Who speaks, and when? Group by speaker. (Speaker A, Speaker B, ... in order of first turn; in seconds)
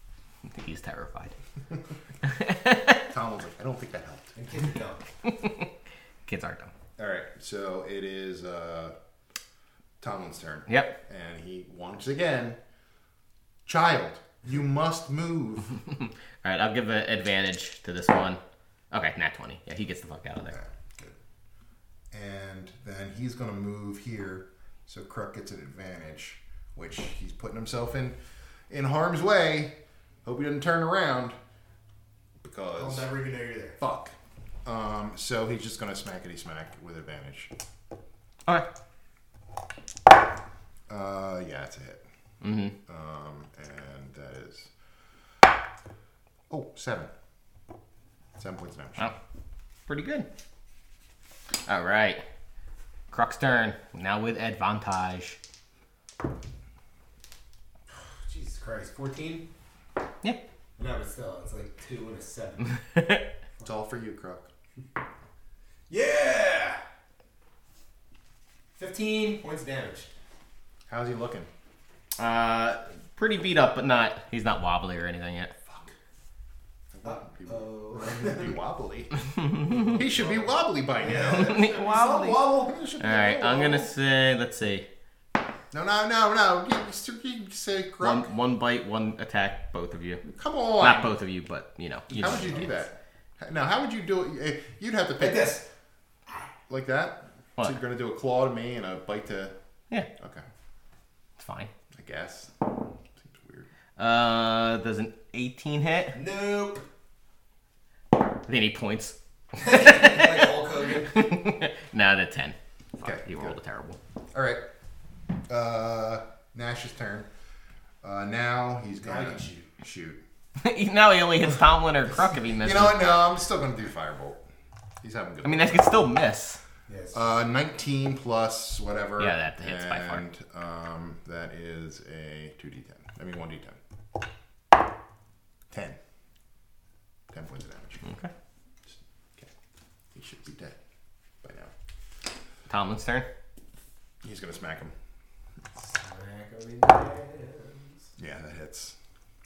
Speaker A: 0.5-1.4, 2.2-3.0, 5.3-5.7, 6.3-6.7, 10.7-11.0, 15.9-20.6, 42.4-42.8, 49.9-50.3, 51.6-52.2, 53.1-55.4, 63.0-63.2, 72.2-75.5, 79.4-80.0, 81.1-84.9, 88.0-90.2, 90.8-92.6, 101.4-101.7, 104.0-106.2, 108.5-114.0, 120.6-123.2, 125.4-126.6, 129.2-130.2, 138.0-138.3, 142.7-143.3
Speaker B: 3.1-4.4, 7.0-8.9, 10.0-12.6, 13.7-15.8, 20.5-21.1, 22.1-28.2, 28.7-31.4, 32.4-33.1, 33.8-37.5, 40.9-42.0, 42.8-44.7, 46.5-47.1, 48.4-49.1, 63.6-64.5, 70.9-71.5, 75.7-75.9, 76.9-79.1, 79.9-83.9, 85.7-88.3, 90.2-91.2, 92.1-95.6, 96.7-99.5, 100.2-100.4, 101.9-103.7, 113.0-113.6, 114.3-114.6, 115.5-117.3, 118.0-120.2, 122.6-124.4, 125.0-126.1, 127.1-133.8, 135.7-136.0, 137.3-138.0, 138.9-139.5, 140.1-140.8, 141.4-141.7, 144.2-144.9, 148.2-149.0
Speaker C: 4.4-5.0, 32.8-33.8, 57.9-59.5, 60.8-62.8, 65.9-66.8, 68.8-70.1, 77.0-78.6, 79.7-82.7, 92.3-92.7, 95.2-95.7, 106.1-106.8, 109.5-111.4, 119.0-119.7, 126.9-127.3, 145.8-148.1